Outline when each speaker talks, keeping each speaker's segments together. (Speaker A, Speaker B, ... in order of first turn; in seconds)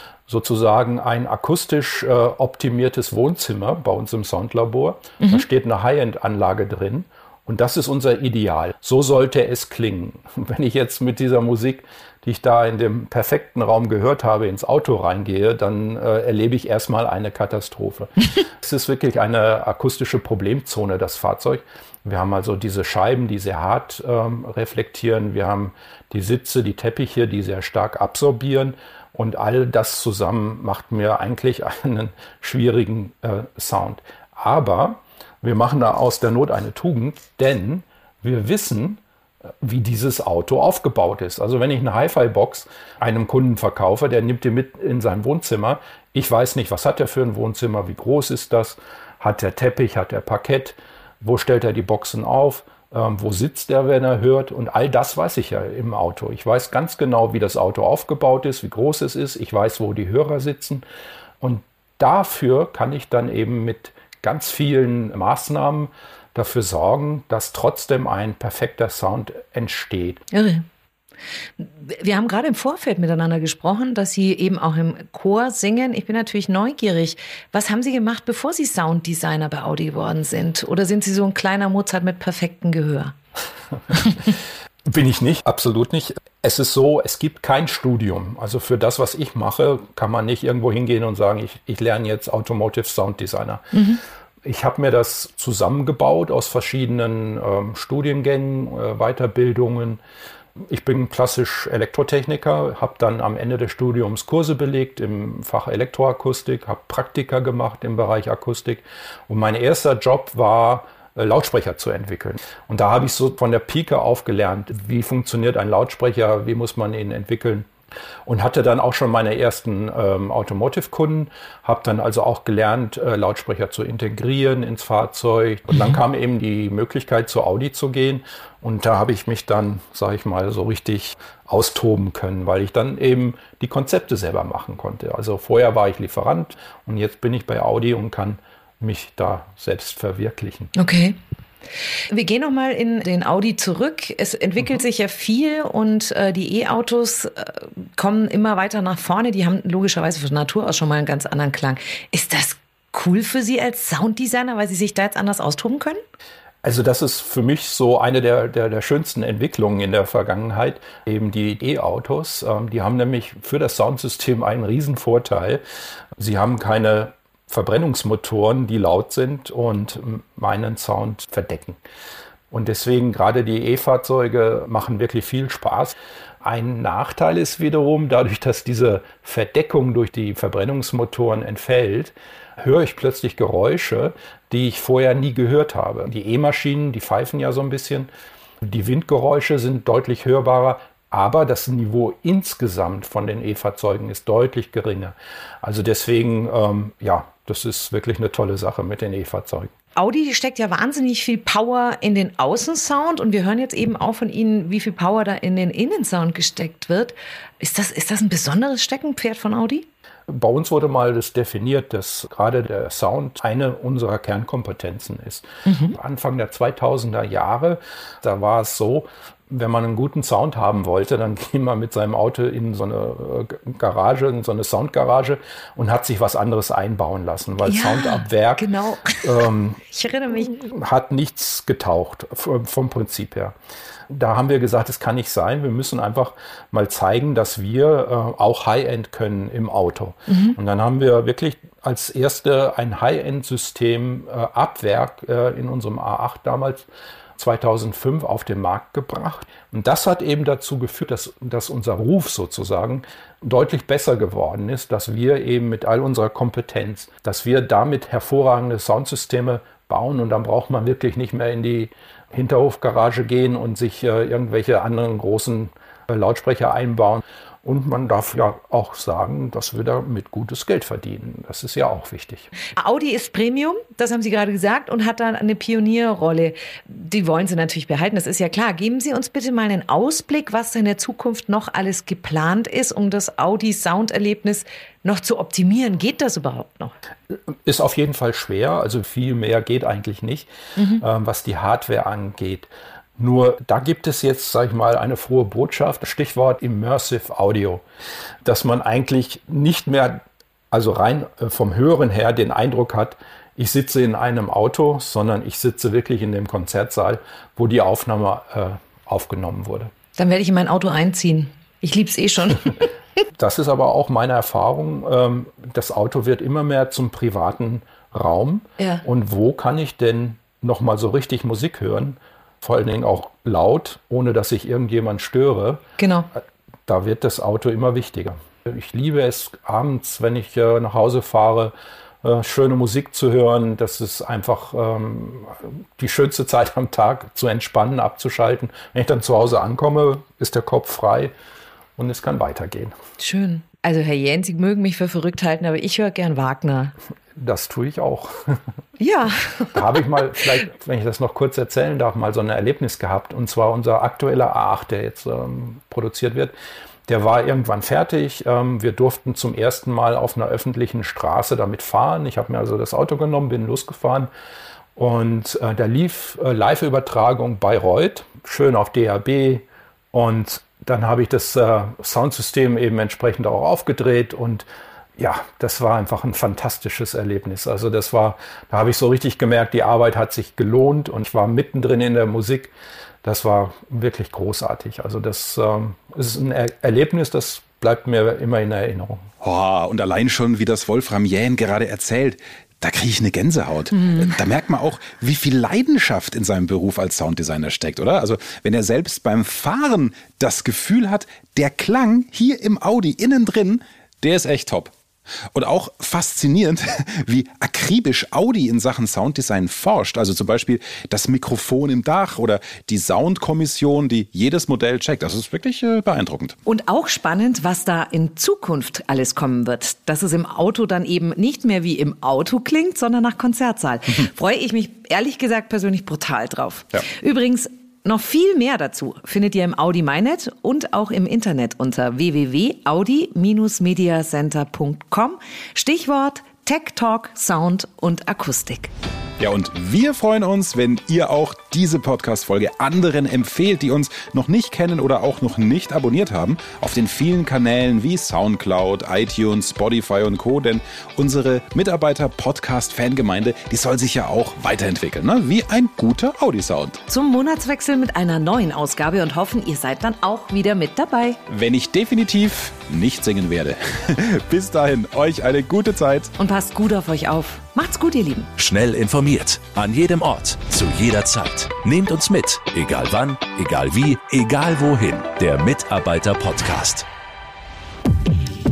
Speaker A: 0.3-39.0, 39.6-60.8, 61.4-70.2, 83.9-84.3, 84.9-93.8, 94.5-100.0, 100.7-117.7, 118.3-140.7, 156.6-165.6, 166.2-171.8, 172.5-188.1, 188.6-199.7, 210.3-228.7, 229.2-229.8, 230.4-233.6, 234.1-272.5, 287.6-297.8, 298.4-309.9, 313.4-325.8, 326.4-341.3, 342.0-342.9, 347.4-348.6, 349.7-356.5, 357.1-364.3, 365.0-374.7, 375.2-382.7, 383.2-389.3
Speaker B: 70.3-70.6, 71.6-83.1, 93.7-94.0, 140.8-141.2, 142.1-156.0, 200.0-209.9, 215.7-216.0, 227.6-230.5, 240.3-240.6, 272.8-286.9, 290.8-291.0, 310.2-312.9, 318.8-319.0, 326.0-326.3, 343.2-346.9, 349.0-350.2, 416.7-438.9, 457.1-461.4, 466.4-468.5
Speaker C: 389.4-404.9, 405.5-416.6, 439.4-457.0, 461.5-466.3
Speaker D: 468.6-477.1